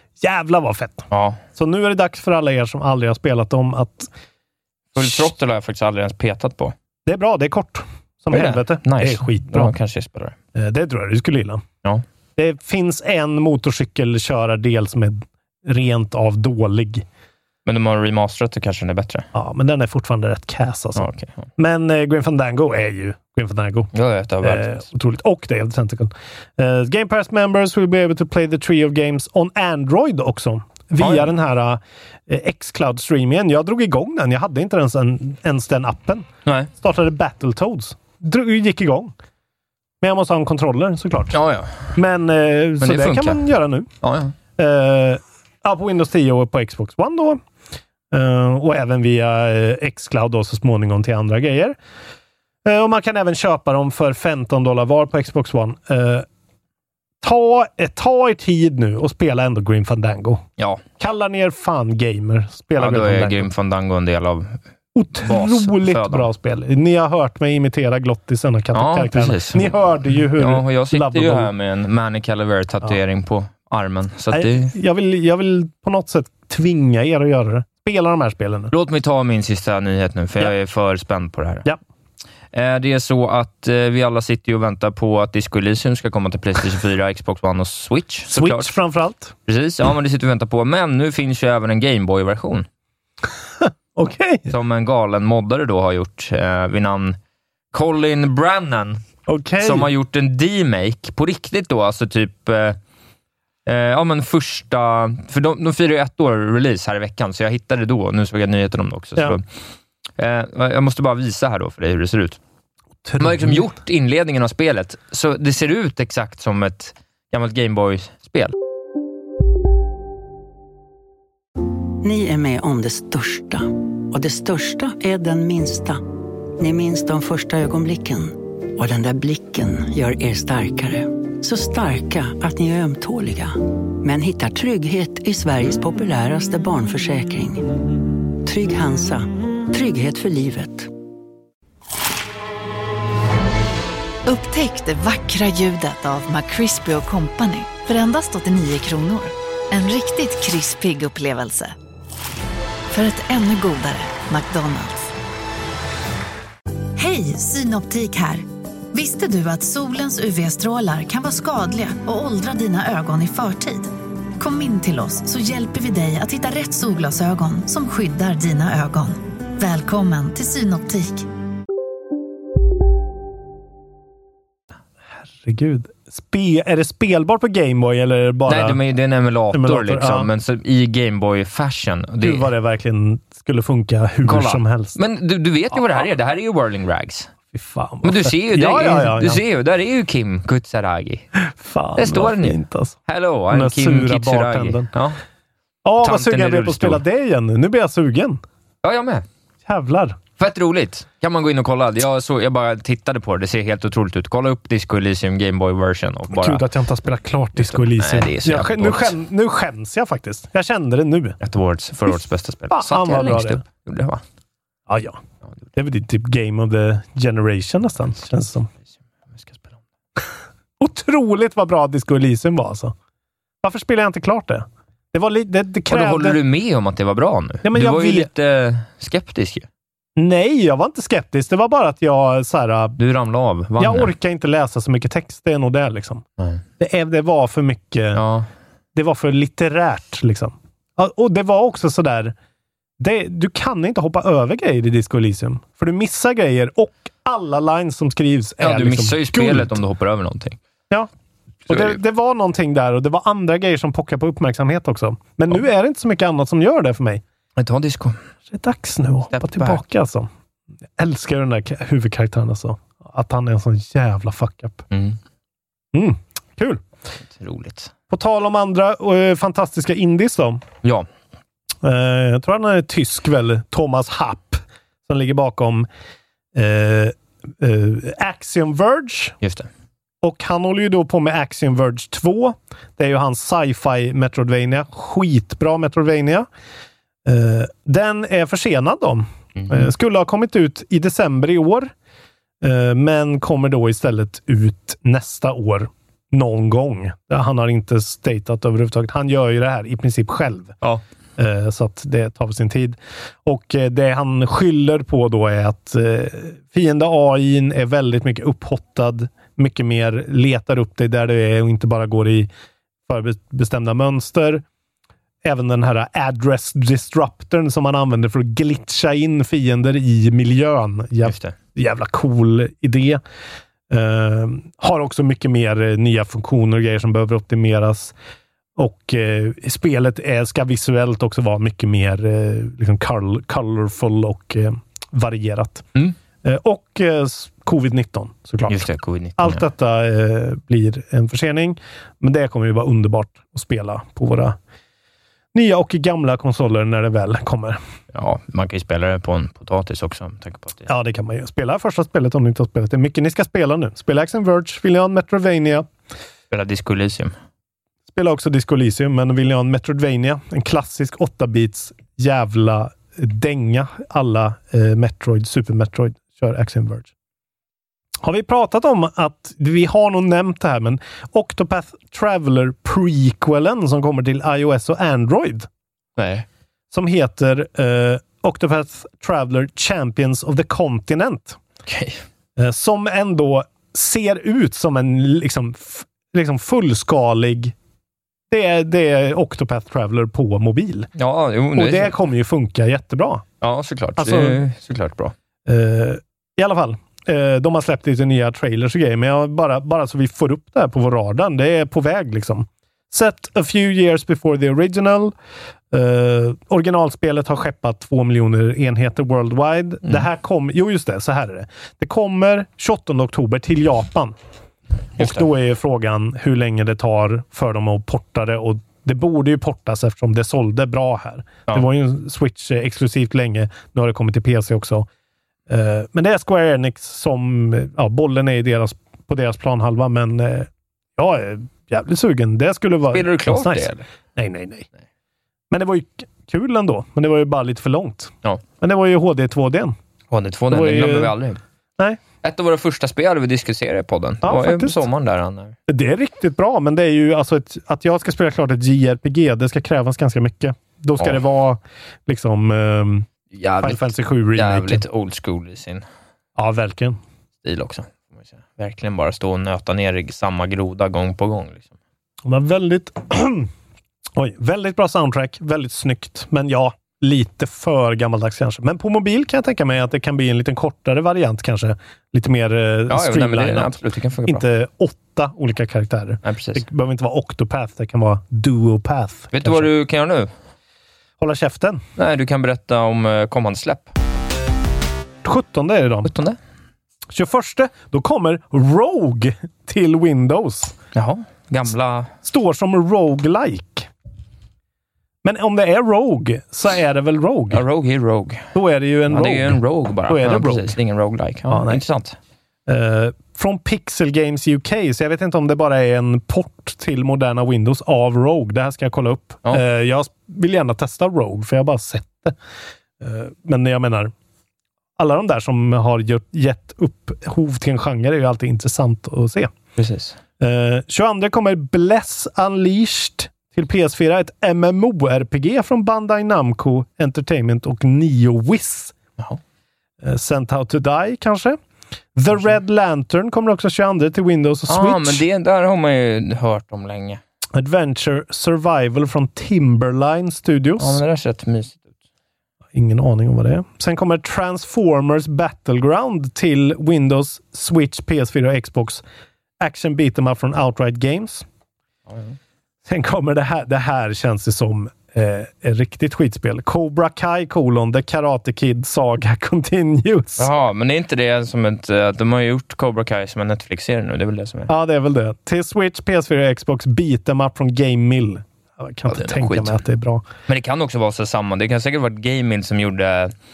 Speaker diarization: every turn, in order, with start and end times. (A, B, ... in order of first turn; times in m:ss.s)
0:00.2-0:04.1 A
0:01.1-0:01.4 B
0:04.9-0:06.7 B
0:05.0-0:05.3 A
0:07.0-0:09.7 A
0:08.3-0:10.4 B
0:10.5-0:11.6 A
0:12.4-0:17.0 A
0:17.6-0:19.3 B
0:19.3-0:39.1 A
0:20.9-0:21.5 B
0:23.9-0:24.8 B
0:31.0-0:31.3 B
0:40.0-0:41.4 A
0:41.3-0:41.9 B
0:41.9-0:43.9 A
0:42.8-0:43.4 B
0:44.0-0:44.3 B
0:44.6-0:47.4 A
0:48.1-0:51.8 A
0:52.6-0:56.2 A
0:57.2-1:00.4 A
1:00.6-1:00.8 B
1:01.0-1:03.5 A
1:02.8-1:04.6 B
1:04.9-1:11.5 A
1:05.2-1:06.3 B
1:08.7-1:09.7 B
1:10.3-1:14.7 B
1:14.3-1:18.7 A
1:18.7-1:21.6 B
1:22.5-1:28.7 B
1:28.3-1:29.3 A
1:29.4-1:32.7 B
1:33.6-1:34.5 A
1:34.5-1:37.2 B
1:37.7-1:39.0 B
1:39.3-1:39.9 A
1:39.6-1:42.8 B
1:43.6-1:49.4 B
1:50.2-1:52.4 B
1:53.0-1:53.7 A
1:53.2-1:58.5 B
2:02.0-2:06.0 C
2:06.6-2:17.6 C
2:18.4-2:20.9 C
2:24.2-2:31.7 D
2:32.9-2:35.1 D
2:37.0-2:51.2 D
2:55.2-2:58.8 A
2:58.5-3:02.5 B
2:59.5-3:00.3 A
3:02.2-3:05.0 A
3:04.2-3:07.3 B
3:05.7-3:06.0 A
3:07.5-3:09.4 A
3:08.0-3:11.2 B
3:11.4-3:13.0 A
3:12.0-3:15.2 B
3:13.5-3:14.9 A
3:15.8-3:18.4 A
3:16.0-3:17.0 B
3:18.8-3:19.2 B
3:19.6-3:20.2 A
3:20.4-3:26.6 B
3:26.3-3:31.4 A
3:27.6-3:29.2 B
3:31.4-3:34.2 B
3:32.7-3:33.6 A
3:34.9-3:35.2 A
3:35.7-3:38.7 A
3:39.3-3:39.8 B
3:40.8-3:42.9 A
3:43.6-3:46.4 A
3:45.9-3:49.7 B
3:47.6-3:48.3 A
3:50.2-3:53.0 A
3:53.0-3:54.1 B
3:53.8-3:56.2 A
3:56.8-3:58.2 A
3:58.1-3:58.5 B
3:58.9-4:02.3 A
4:03.0-4:09.8 A
4:08.6-4:10.6 B
4:11.7-4:12.0 B
4:11.7-4:17.2 A
4:17.6-4:18.2 B
4:18.5-4:20.3 A
4:19.3-4:19.8 B
4:21.0-4:24.8 A
4:24.9-4:25.2 B
4:25.9-4:26.8 A
4:27.3-4:27.9 B
4:28.1-4:30.6 A
4:31.8-4:35.9 A
4:36.5-4:39.4 A
4:39.4-4:39.7 B
4:40.2-4:46.5 A
4:47.2-4:51.9 A
4:49.6-4:49.9 B
4:52.6-5:00.8 A
5:01.4-5:12.5 A
5:13.1-5:14.6 A
5:15.4-5:23.2 A
5:21.2-5:21.5 B
5:23.9-5:28.1 A
5:28.8-5:35.8 A
5:36.4-5:44.6 A
5:38.7-5:39.6 B
5:45.5-5:47.8 A
5:48.1-5:50.9 B
5:50.9-5:55.9 A
5:56.5-5:57.3 B
5:58.1-6:07.1 A
6:08.2-6:15.7 A
6:16.2-6:16.4 B
6:16.9-6:21.6 A
6:21.9-6:22.2 B
6:22.6-6:27.7 A
6:28.5-6:31.1 A
6:31.1-6:32.1 B
6:31.7-6:33.4 A
6:33.6-6:35.3 B
6:34.2-6:34.6 A
6:35.6-6:45.3 A
6:45.9-6:54.3 A
6:55.2-6:55.4 B
6:55.2-7:05.1 A
7:05.7-7:14.9 A
7:13.1-7:14.0 B
7:15.7-7:19.9 A
7:20.3-7:21.6 B
7:20.7-7:21.3 A
7:22.4-7:25.8 B
7:24.4-7:25.0 A
7:25.9-7:33.3 A
7:33.5-7:36.0 B
7:33.8-7:35.0 A
7:36.6-7:37.2 A
7:37.6-7:41.9 B
7:42.4-7:43.7 A
7:44.4-7:59.9 A
7:53.1-7:54.6 B
7:56.4-7:56.8 B
7:59.5-8:00.5 B
8:01.4-8:02.0 A
8:02.2-8:04.1 B
8:05.4-8:06.3 A
8:06.2-8:06.6 B
8:07.3-8:11.0 A
8:11.1-8:12.3 B
8:12.4-8:14.1 A
8:15.4-8:17.8 A
8:17.7-8:18.7 B
8:18.7-8:21.0 A
8:19.3-8:22.4 B
8:21.7-8:22.0 A
8:22.9-8:32.6 A
8:33.2-8:34.3 A
8:35.2-8:39.7 A
8:40.0-8:40.4 B
8:40.6-8:49.1 A
8:50.2-8:51.8 A
8:52.3-8:55.4 A
8:52.5-8:52.8 B
8:54.9-8:57.4 B
8:57.8-9:01.2 A
9:01.0-9:02.1 B
9:02.9-9:09.2 A
9:09.8-9:11.6 A
9:12.3-9:12.6 B
9:13.0-9:20.7 A
9:20.6-9:24.9 B
9:24.9-9:30.4 A
9:29.3-9:30.0 B
9:30.7-9:33.5 B